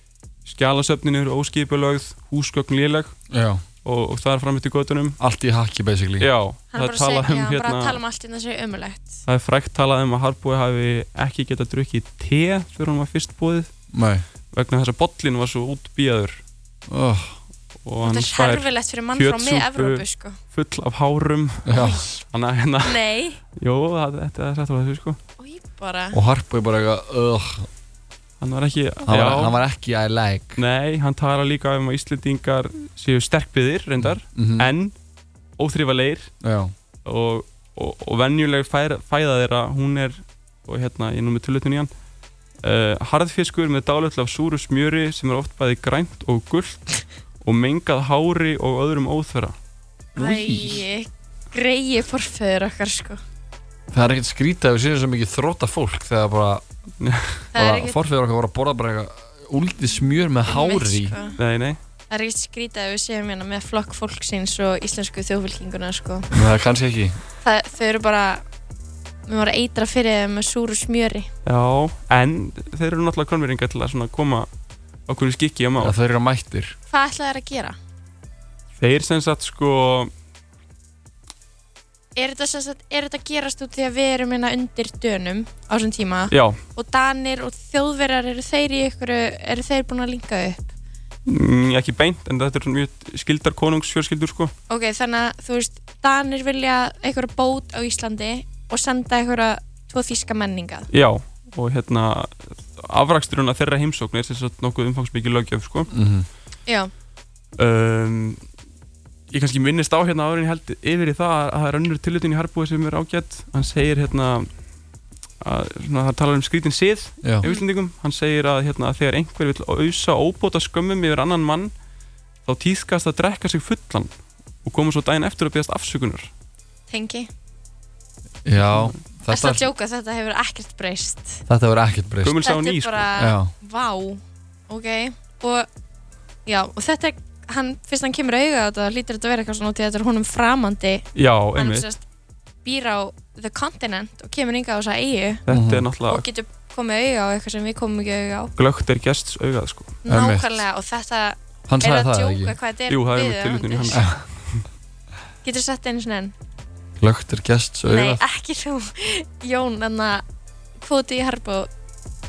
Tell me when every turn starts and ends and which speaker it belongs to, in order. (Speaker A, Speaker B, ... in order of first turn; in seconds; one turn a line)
Speaker A: 0.5-3.1
Speaker B: 3.3-3.6
Speaker A: 3.8-5.2
Speaker B: 5.2-6.3
Speaker A: 6.2-8.0
Speaker C: 6.7-9.2
Speaker A: 9.2-13.7
Speaker B: 13.9-14.2
Speaker A: 14.5-16.4
Speaker B: 16.9-17.4
Speaker A: 17.8-25.2
Speaker C: 18.0-20.4
Speaker B: 21.6-22.1
Speaker C: 21.8-22.0
Speaker C: 22.8-23.4
Speaker C: 25.4-26.2
Speaker B: 26.1-27.7
Speaker A: 28.4-29.6
Speaker B: 29.1-30.6
Speaker A: 30.6-34.9
Speaker B: 34.0-34.7
Speaker A: 35.6-36.3
Speaker B: 36.4-36.7
Speaker A: 37.0-41.9
Speaker A: 42.6-49.5
Speaker C: 50.1-53.2
Speaker B: 50.2-50.8
Speaker B: 53.9-56.6
Speaker A: 57.0-57.5
Speaker C: 57.5-58.0
Speaker B: 57.5-61.1
Speaker C: 60.5-61.4
Speaker A: 61.4-61.8
Speaker C: 62.1-66.3
Speaker B: 66.3-67.2
Speaker C: 67.4-68.4
Speaker C: 69.3-71.3
Speaker A: 71.4-74.5
Speaker A: 75.1-76.0
Speaker B: 75.8-76.8
Speaker C: 76.9-77.8
Speaker A: 78.8-80.1
Speaker C: 82.2-90.7
Speaker A: 86.3-86.6
Speaker A: 91.2-94.5
Speaker C: 94.7-100.9
Speaker A: 100.9-105.9
Speaker B: 105.9-106.3
Speaker A: 107.6-108.4
Speaker A: 109.3-114.5
Speaker A: 115.4-121.7
Speaker A: 122.5-124.1
Speaker A: 124.6-126.3
Speaker C: 126.9-127.3
Speaker B: 128.4-129.7
Speaker A: 128.6-129.0
Speaker C: 129.3-131.4
Speaker B: 131.5-132.4
Speaker A: 132.2-133.1
Speaker C: 132.4-135.7
Speaker B: 133.2-133.5
Speaker C: 136.4-142.0
Speaker A: 141.1-141.9
Speaker C: 142.6-145.4
Speaker A: 145.4-146.2
Speaker B: 145.5-145.9
Speaker C: 146.1-148.5
Speaker A: 148.6-150.0
Speaker C: 150.0-154.0
Speaker B: 150.1-150.6
Speaker B: 151.7-152.6
Speaker A: 152.9-154.6
Speaker B: 153.9-154.2
Speaker C: 155.4-156.3
Speaker B: 157.0-158.2
Speaker C: 157.9-160.2
Speaker C: 160.8-161.7